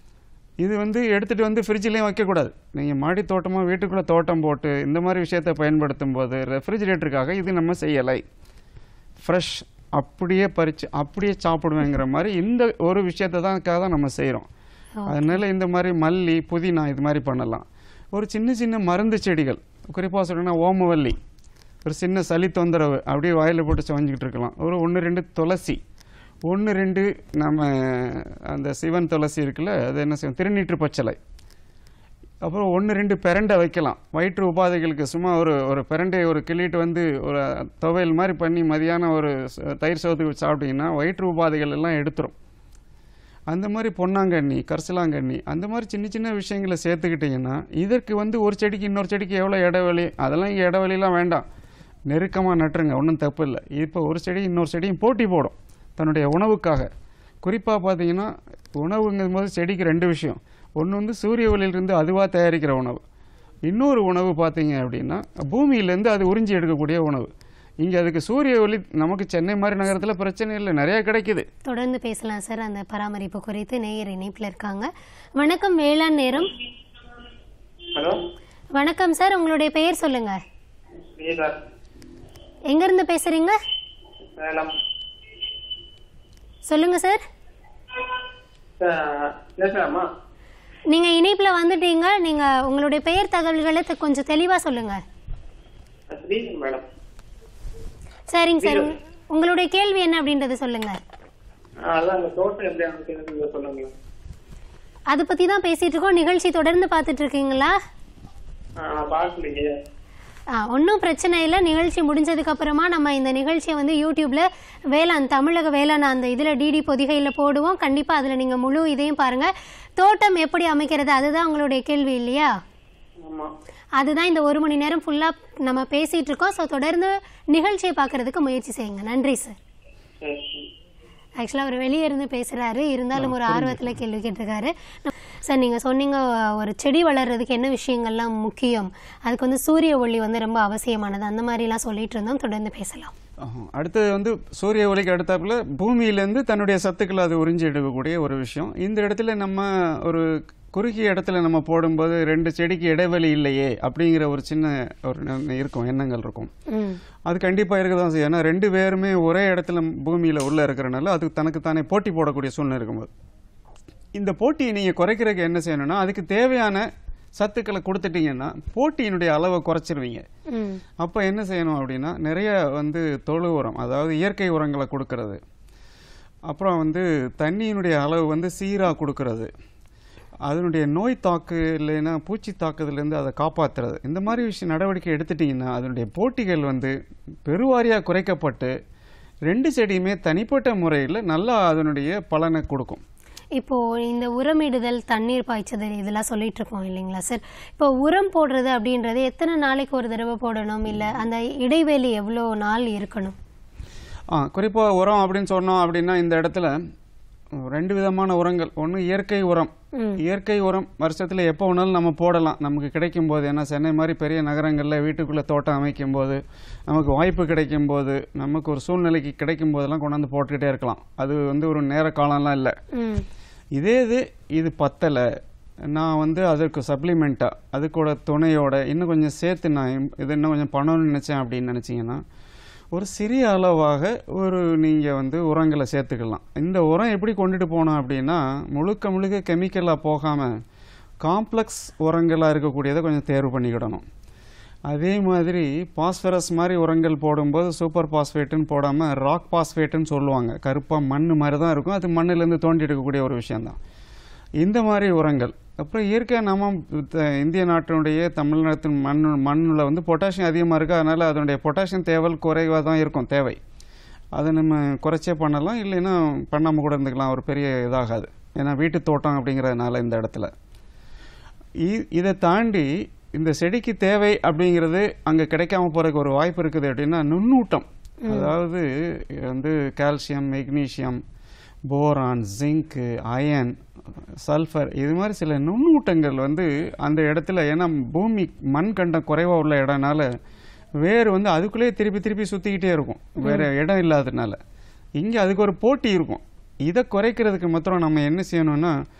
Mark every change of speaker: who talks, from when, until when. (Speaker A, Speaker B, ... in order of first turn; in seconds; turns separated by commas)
Speaker A: 0.6-8.2, Speaker A: 9.2-14.5, Speaker B: 15.0-15.3, Speaker A: 15.1-21.2, Speaker A: 21.8-25.8, Speaker A: 26.5-31.2, Speaker A: 32.4-42.3, Speaker A: 43.5-51.4, Speaker A: 52.1-56.9, Speaker A: 57.4-63.0, Speaker A: 63.7-67.3, Speaker A: 67.8-71.5, Speaker B: 71.7-76.5, Speaker B: 78.7-80.4, Speaker C: 81.2-81.5, Speaker B: 82.7-83.6, Speaker C: 84.4-84.7, Speaker B: 86.7-87.2, Speaker C: 88.8-90.0, Speaker B: 90.9-95.0, Speaker C: 96.1-96.8, Speaker B: 98.3-101.0, Speaker C: 98.6-98.9, Speaker C: 101.9-103.9, Speaker B: 105.1-107.7, Speaker C: 108.8-109.7, Speaker B: 110.5-122.6, Speaker C: 123.2-123.5, Speaker B: 124.0-129.6, Speaker C: 130.2-130.6, Speaker B: 131.4-143.1, Speaker A: 133.2-133.9, Speaker A: 143.4-156.5, Speaker B: 156.7-157.0, Speaker A: 157.3-163.1, Speaker A: 164.1-170.2, Speaker B: 170.5-170.8, Speaker A: 171.0-175.4, Speaker A: 176.5-179.5, Speaker A: 180.4-186.9, Speaker A: 187.4-188.7, Speaker A: 189.5-193.0, Speaker B: 193.6-203.3, Speaker A: 204.3-206.7, Speaker A: 207.6-222.8, Speaker B: 222.9-223.2, Speaker A: 223.8-225.2, Speaker A: 225.9-232.2, Speaker A: 232.9-240.5, Speaker A: 241.2-244.0, Speaker A: 244.9-253.8, Speaker A: 254.6-263.6, Speaker A: 264.3-270.5, Speaker A: 271.8-281.2, Speaker B: 278.2-278.5, Speaker A: 281.9-283.8, Speaker A: 284.4-290.3, Speaker A: 291.0-294.6, Speaker B: 293.4-293.6, Speaker A: 295.2-298.9